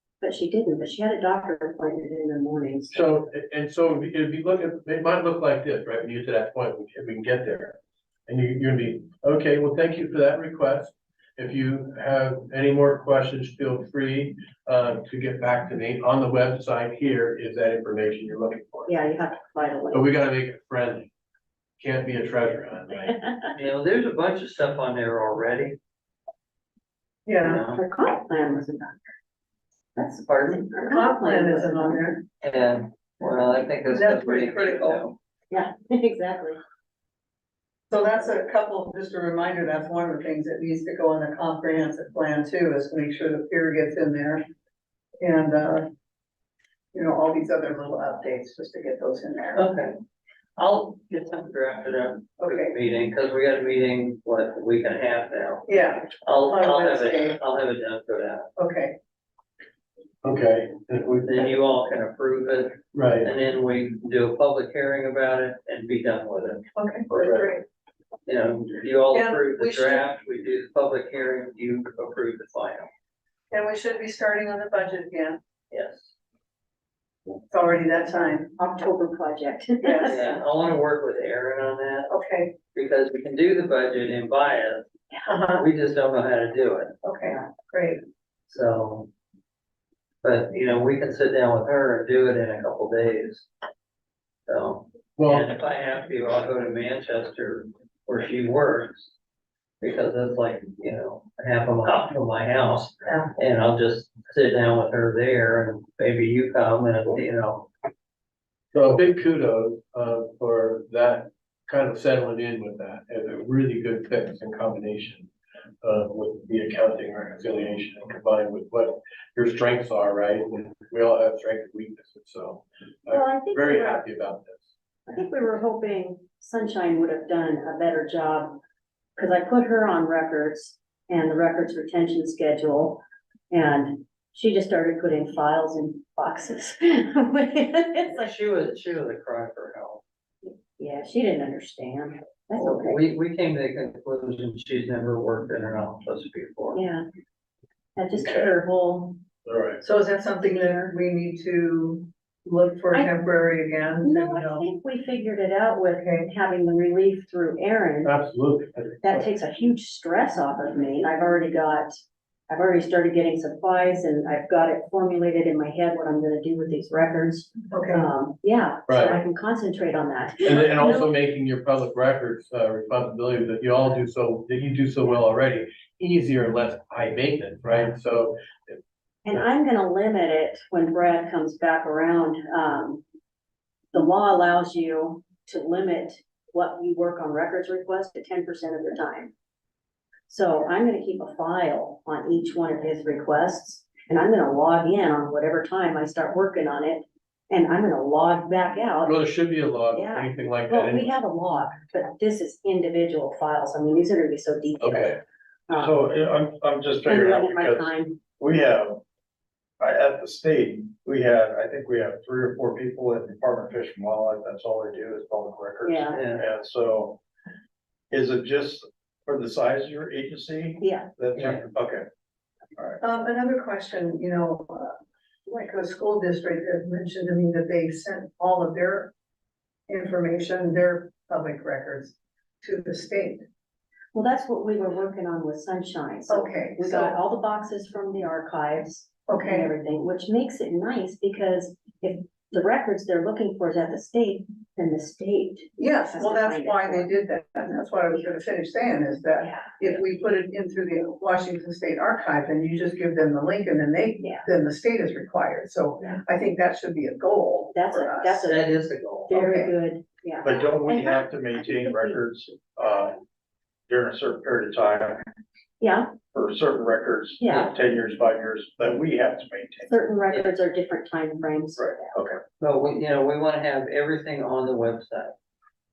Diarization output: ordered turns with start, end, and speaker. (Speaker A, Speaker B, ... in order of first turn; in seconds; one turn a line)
Speaker A: 0.2-3.0
Speaker B: 2.9-18.9
Speaker A: 18.9-20.0
Speaker B: 19.9-21.1
Speaker B: 21.8-23.2
Speaker C: 23.5-25.8
Speaker D: 27.2-27.6
Speaker C: 27.4-27.8
Speaker A: 27.7-29.0
Speaker C: 29.9-30.8
Speaker A: 30.5-32.1
Speaker D: 30.8-32.2
Speaker C: 32.4-35.1
Speaker D: 33.9-35.1
Speaker A: 35.5-36.6
Speaker D: 37.9-44.4
Speaker D: 45.2-45.9
Speaker D: 46.9-49.6
Speaker C: 49.5-50.0
Speaker C: 50.6-58.5
Speaker D: 52.4-52.7
Speaker D: 55.7-57.4
Speaker D: 58.6-59.0
Speaker B: 60.2-61.4
Speaker C: 61.2-67.3
Speaker B: 62.9-63.3
Speaker D: 66.8-67.6
Speaker B: 67.1-67.5
Speaker C: 68.2-72.9
Speaker D: 69.1-70.0
Speaker D: 73.5-75.4
Speaker C: 75.7-76.1
Speaker D: 77.5-78.5
Speaker A: 78.6-80.4
Speaker D: 79.8-80.2
Speaker C: 80.0-82.1
Speaker D: 82.1-82.5
Speaker C: 82.7-84.9
Speaker D: 85.3-85.7
Speaker C: 85.5-86.9
Speaker D: 87.0-88.0
Speaker C: 88.5-89.1
Speaker C: 90.2-93.5
Speaker C: 94.5-99.1
Speaker B: 95.2-95.5
Speaker C: 99.8-107.7
Speaker B: 108.7-115.3
Speaker B: 115.8-124.7
Speaker A: 123.1-124.0
Speaker A: 125.1-128.6
Speaker A: 129.2-138.3
Speaker C: 138.1-140.0
Speaker A: 140.4-143.0
Speaker C: 142.5-146.8
Speaker A: 146.7-147.0
Speaker A: 147.9-149.2
Speaker B: 149.4-149.8
Speaker D: 149.8-154.7
Speaker A: 150.4-150.9
Speaker A: 154.0-158.1
Speaker D: 155.9-156.3
Speaker B: 158.0-159.3
Speaker A: 159.0-162.0
Speaker A: 162.5-171.1
Speaker D: 167.7-168.1
Speaker B: 168.9-169.2
Speaker B: 170.4-178.8
Speaker A: 179.2-183.0
Speaker A: 183.9-189.3
Speaker A: 190.3-199.1
Speaker B: 199.0-201.1
Speaker A: 199.9-205.9
Speaker B: 204.8-205.2
Speaker E: 205.7-209.0
Speaker A: 207.0-208.2
Speaker E: 209.8-217.2
Speaker A: 215.8-216.2
Speaker C: 216.1-216.4
Speaker E: 218.1-222.1
Speaker A: 220.8-221.1
Speaker C: 221.3-221.6
Speaker D: 223.0-224.9
Speaker D: 225.5-229.1
Speaker D: 229.9-233.4
Speaker A: 234.1-247.1
Speaker D: 236.3-237.2
Speaker D: 239.3-239.7
Speaker D: 245.8-258.4
Speaker A: 249.4-249.7
Speaker A: 254.2-254.4
Speaker A: 257.7-258.8
Speaker C: 258.4-259.4
Speaker A: 259.3-262.2
Speaker D: 259.3-259.7
Speaker E: 260.4-263.1
Speaker E: 263.9-265.2
Speaker A: 265.8-266.1
Speaker E: 266.3-269.9
Speaker A: 267.4-267.7
Speaker A: 269.9-272.1
Speaker E: 271.8-272.4
Speaker C: 272.6-275.3